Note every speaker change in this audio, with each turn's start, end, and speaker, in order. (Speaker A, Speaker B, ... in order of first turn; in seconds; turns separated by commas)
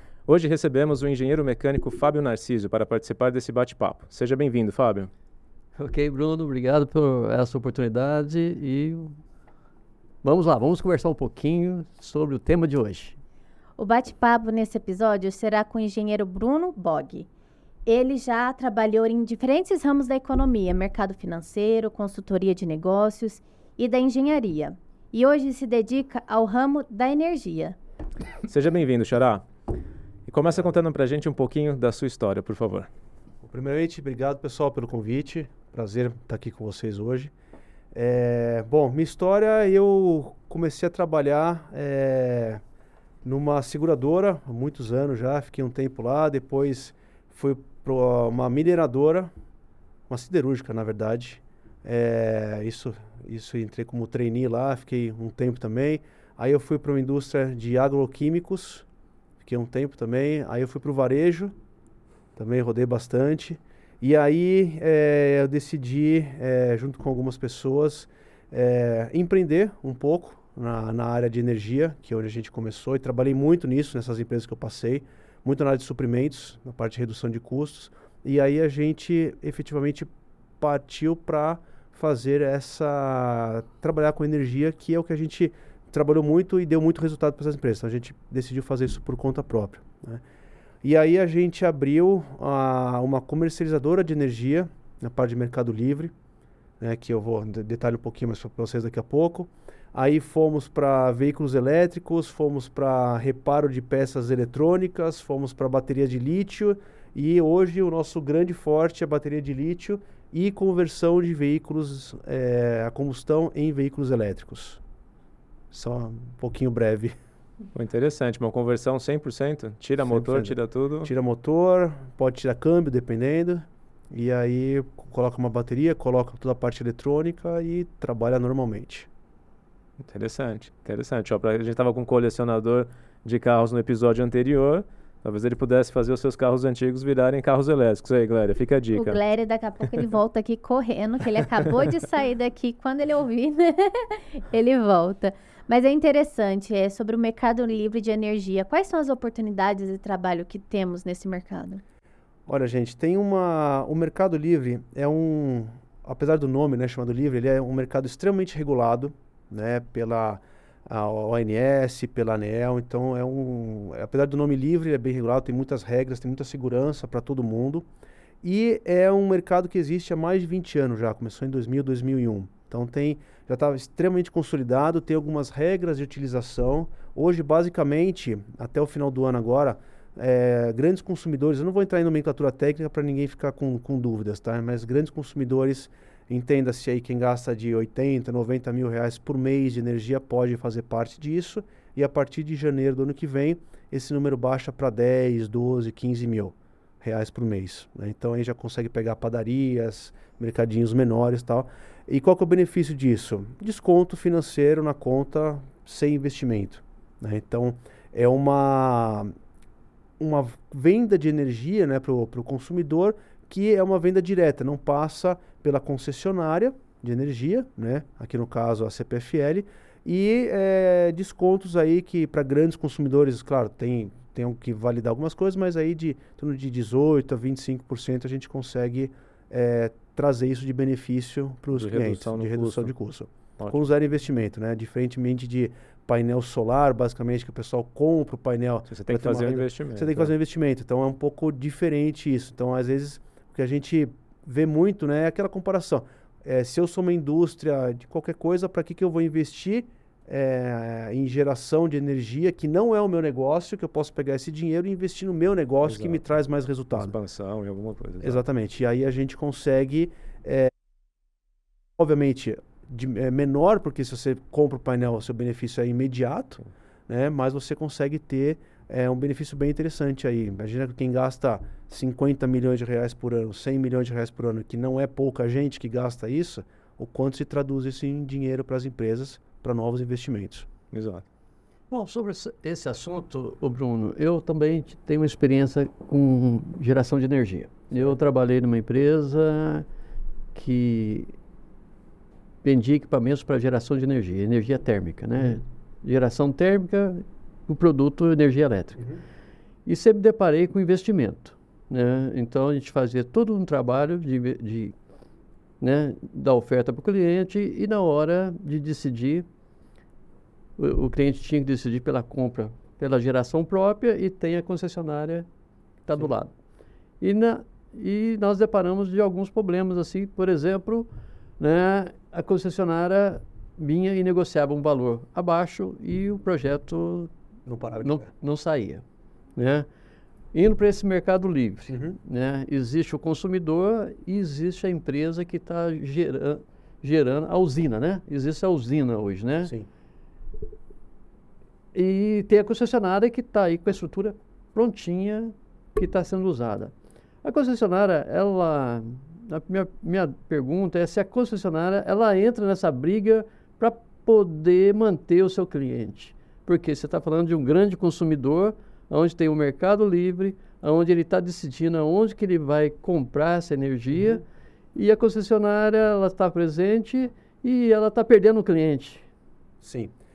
Speaker A: 0.3-5.1, Speaker B: 5.8-9.2, Speaker B: 10.2-13.2, Speaker C: 13.8-17.3, Speaker C: 17.9-27.8, Speaker A: 28.5-29.5, Speaker A: 30.3-32.9, Speaker D: 33.4-37.3, Speaker D: 37.9-42.6, Speaker D: 43.2-49.3, Speaker D: 50.1-58.9, Speaker D: 59.4-61.5, Speaker D: 62.4-90.2, Speaker D: 90.8-96.1, Speaker D: 96.8-114.8, Speaker D: 115.7-117.1, Speaker A: 117.8-121.1, Speaker D: 120.1-129.1, Speaker A: 130.0-139.2, Speaker C: 138.9-151.8, Speaker D: 152.5-167.9, Speaker D: 168.4-209.3, Speaker D: 210.2-257.1, Speaker A: 231.7-232.9, Speaker A: 233.6-233.9, Speaker A: 238.9-240.3, Speaker A: 255.8-256.2, Speaker A: 256.9-258.4, Speaker D: 258.2-260.7, Speaker D: 262.0-280.7, Speaker A: 280.9-281.2, Speaker B: 281.9-289.9, Speaker B: 290.6-291.3, Speaker B: 292.6-299.1, Speaker B: 299.9-305.0, Speaker B: 305.8-309.4, Speaker B: 310.8-315.5, Speaker B: 316.1-316.5, Speaker B: 317.2-327.3, Speaker D: 327.7-328.3, Speaker B: 328.0-329.0, Speaker B: 329.6-329.9, Speaker B: 330.5-339.7, Speaker D: 331.9-332.2, Speaker B: 341.9-364.4, Speaker B: 364.9-369.3, Speaker D: 369.8-370.1